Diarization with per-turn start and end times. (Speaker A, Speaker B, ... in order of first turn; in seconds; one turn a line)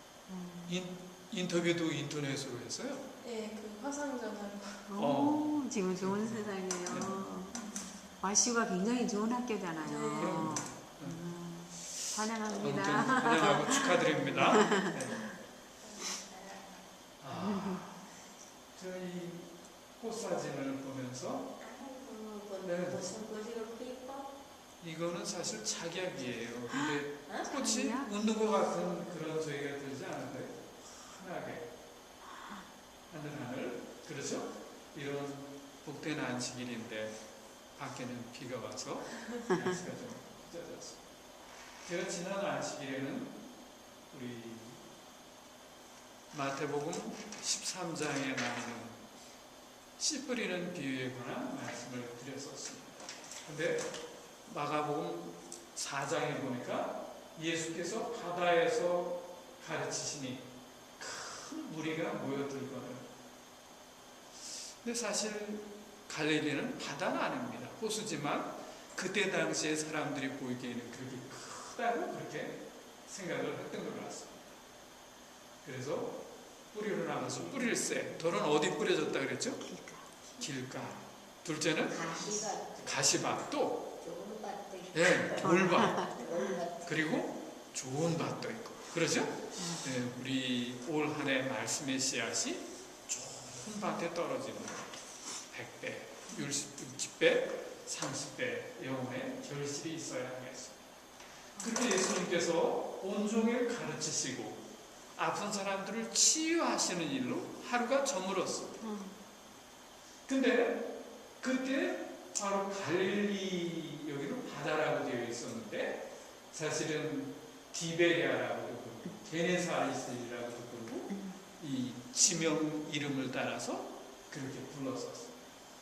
Speaker A: 0.3-0.8
Speaker B: 0.7-3.0
Speaker C: 3.2-4.9
Speaker A: 4.9-7.6
Speaker B: 5.0-7.3
Speaker C: 7.5-8.0
Speaker A: 8.2-15.2
Speaker C: 9.8-10.6
Speaker B: 10.2-11.2
Speaker B: 12.5-15.3
Speaker C: 15.8-16.6
Speaker B: 17.2-18.0
Speaker A: 17.3-17.9
Speaker B: 18.8-21.5
Speaker D: 21.6-24.3
Speaker B: 22.6-23.0
Speaker B: 24.8-31.7
Speaker A: 27.5-28.1
Speaker B: 33.1-37.2
Speaker B: 37.8-41.0
Speaker B: 41.9-43.4
Speaker B: 44.1-44.9
Speaker B: 46.3-49.0
Speaker B: 50.0-53.9
Speaker B: 54.5-60.5
Speaker B: 61.0-63.1
Speaker B: 64.8-74.5
Speaker B: 75.6-76.2
Speaker B: 76.7-79.6
Speaker A: 79.6-80.0
Speaker B: 80.4-82.1
Speaker D: 81.9-83.4
Speaker B: 82.8-83.9
Speaker D: 84.0-87.0
Speaker B: 84.9-86.0
Speaker A: 85.4-86.6
Speaker B: 86.8-94.9
Speaker A: 89.6-89.8
Speaker B: 95.5-100.8
Speaker B: 101.6-104.6
Speaker B: 105.2-108.8
Speaker A: 108.8-109.2
Speaker B: 110.3-110.9
Speaker B: 111.4-125.3
Speaker A: 121.1-121.4